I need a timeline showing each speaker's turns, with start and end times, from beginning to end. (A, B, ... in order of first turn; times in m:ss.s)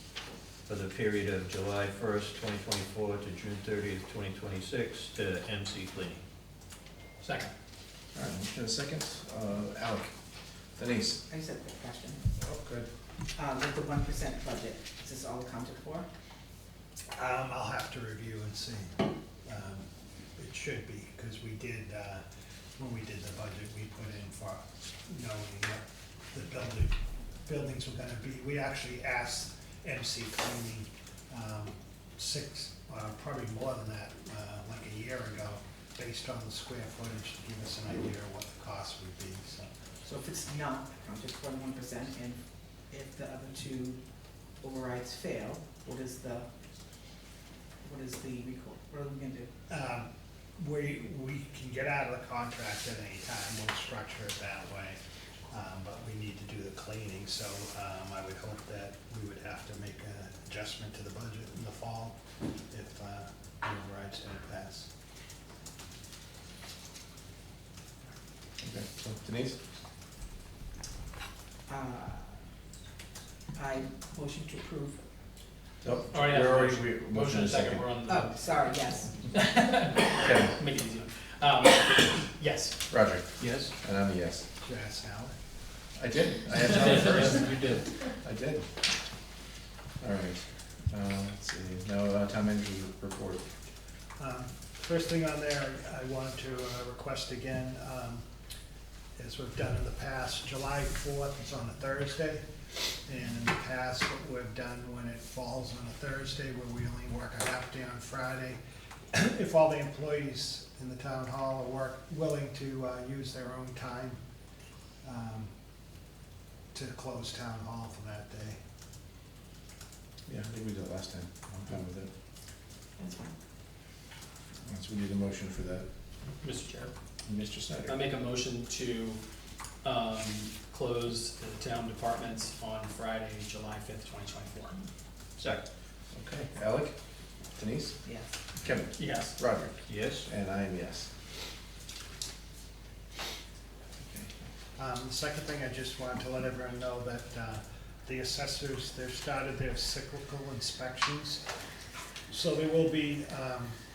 0:00.7-0:06.2 A
0:07.2-0:07.5 B
0:08.1-0:10.1 C
0:10.8-0:11.2 C
0:11.3-0:12.2 D
0:12.4-0:12.9 C
0:13.4-0:16.1 D
0:17.2-0:22.2 E
0:22.8-0:26.9 E
0:27.4-0:39.7 E
0:40.0-0:44.0 D
0:44.6-0:46.5 D
0:47.8-0:49.5 D
0:49.7-1:02.2 E
1:02.7-1:04.9 E
1:08.6-1:09.6 C
1:11.7-1:12.3 D
1:13.6-1:15.0 D
1:15.8-1:17.9 C
1:16.1-1:18.6 B
1:18.1-1:19.5 D
1:19.3-1:22.8 B
1:20.2-1:20.5 C
1:22.9-1:24.5 C
1:23.4-1:23.7 A
1:24.6-1:25.4 E
1:26.0-1:28.7 C
1:26.7-1:27.8 B
1:27.4-1:27.8 A
1:30.0-1:33.4 C
1:34.2-1:38.3 E
1:39.2-1:42.4 E
1:43.0-1:48.6 E
1:49.1-1:54.2 E
1:55.0-1:55.5 E
1:56.7-1:58.6 E
2:00.3-2:02.1 C
2:03.0-2:03.3 D
2:04.6-2:05.9 C
2:06.4-2:06.9 B
2:07.3-2:08.0 C
2:07.9-2:09.2 B
2:09.8-2:14.8 B
2:15.4-2:15.6 A
2:16.2-2:16.9 C
2:17.6-2:18.0 C
2:18.6-2:19.7 C
2:19.0-2:19.4 B
2:19.9-2:20.3 A
2:20.3-2:21.1 C
2:24.0-2:24.3 C
2:24.8-2:31.4 E
2:32.3-2:33.8 E